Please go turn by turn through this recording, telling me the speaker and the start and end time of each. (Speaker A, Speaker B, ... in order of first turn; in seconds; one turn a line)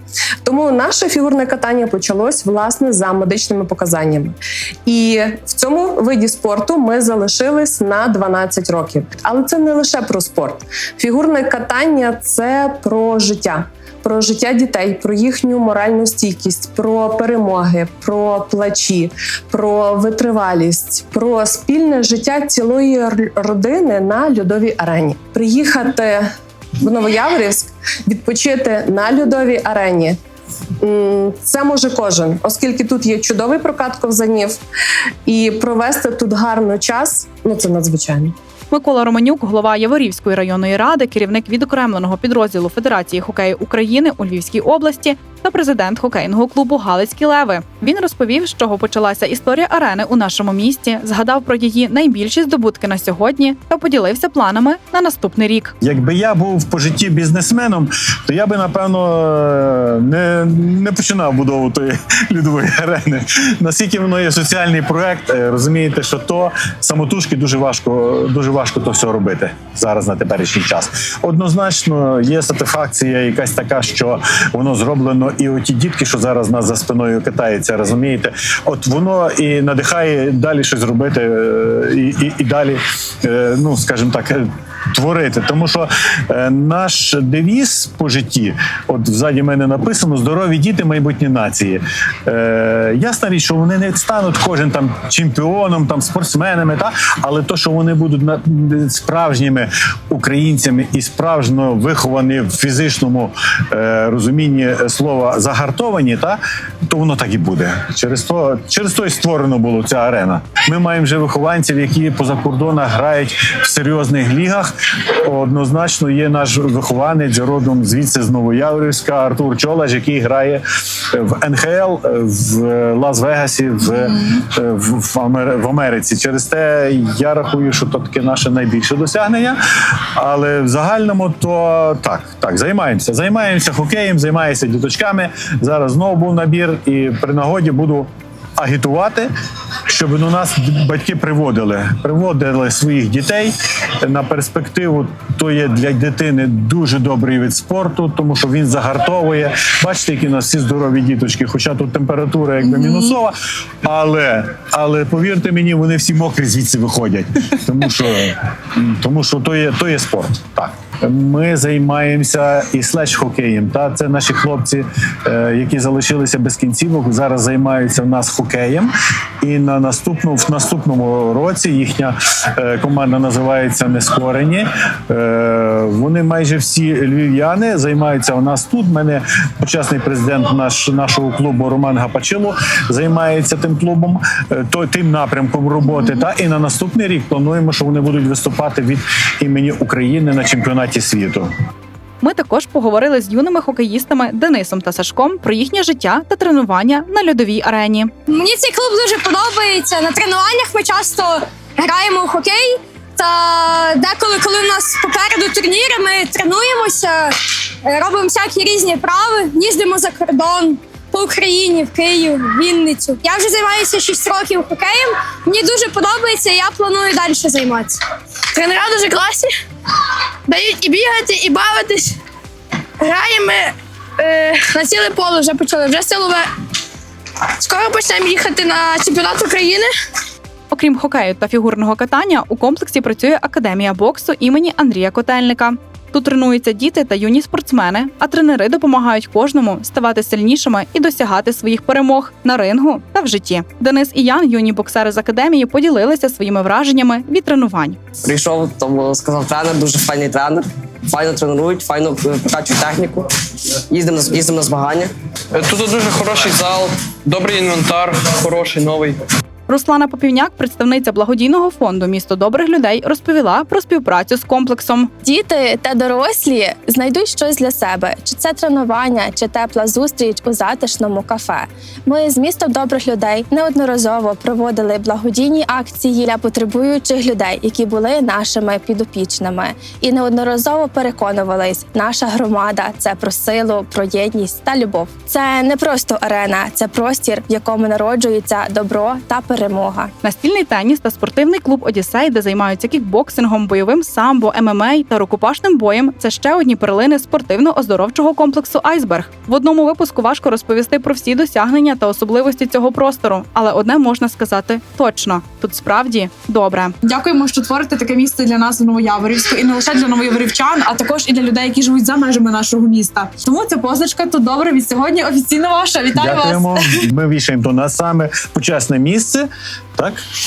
Speaker A: 0.4-4.3
Speaker A: 4.8-26.3
Speaker A: 26.8-30.2
Speaker A: 30.8-34.6
Speaker A: 35.2-38.3
Speaker B: 38.7-55.7
Speaker C: 55.8-139.3
Speaker C: 139.9-191.5
Speaker B: 192.2-198.1
Speaker D: 198.3-218.0
Speaker E: 218.5-219.5
Speaker E: 220.5-222.1
Speaker E: 223.0-226.4
Speaker E: 227.6-229.9
Speaker B: 230.7-248.0
Speaker F: 248.2-253.2
Speaker F: 253.9-255.1
Speaker G: 255.5-259.2
Speaker B: 259.7-265.1
Speaker H: 265.3-290.1
Speaker B: 290.2-306.9
Speaker I: 307.0-316.8
Speaker C: 316.1-320.2